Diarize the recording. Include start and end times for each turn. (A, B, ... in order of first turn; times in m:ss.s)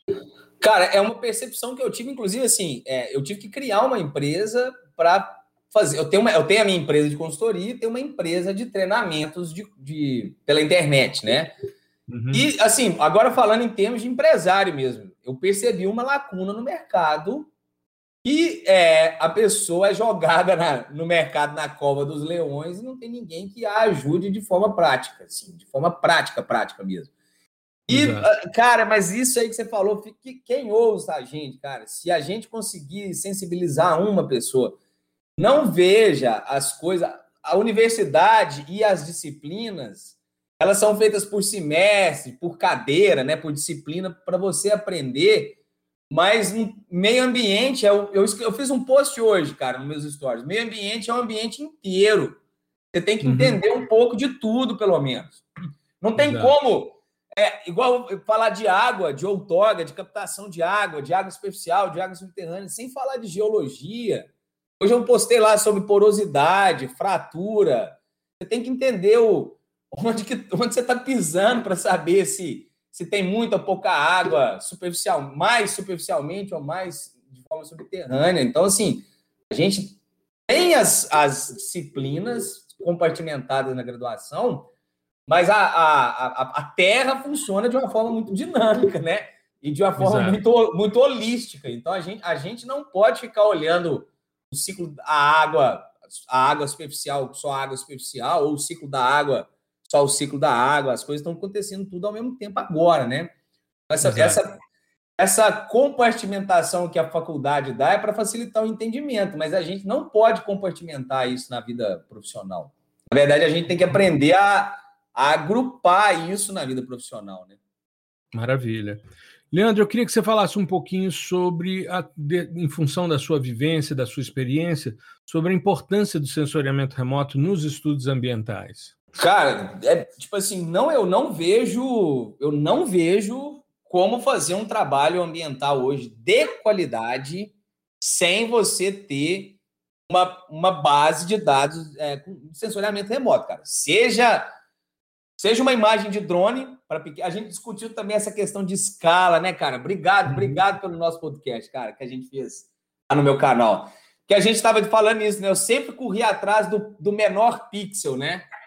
0:00.6-0:11.5 A
0:12.1-0:12.5 B
0:12.3-0:17.5 A
0:18.2-0:27.1 A
0:27.9-0:34.8 A
0:27.9-0:28.3 B
0:35.4-0:45.6 A
0:46.1-0:52.4 A
0:52.9-0:55.4 A
0:53.2-0:53.6 B
0:56.0-1:04.3 A
0:56.2-0:56.6 B
1:04.8-1:24.7 A
1:25.3-1:43.3 A
1:30.0-1:30.4 B
1:43.9-1:44.5 A
1:44.0-1:44.4 B
1:45.2-1:57.6 A
1:58.3-2:08.9 B
2:09.2-2:24.5 A
2:25.4-2:38.4 A
2:30.3-2:30.6 B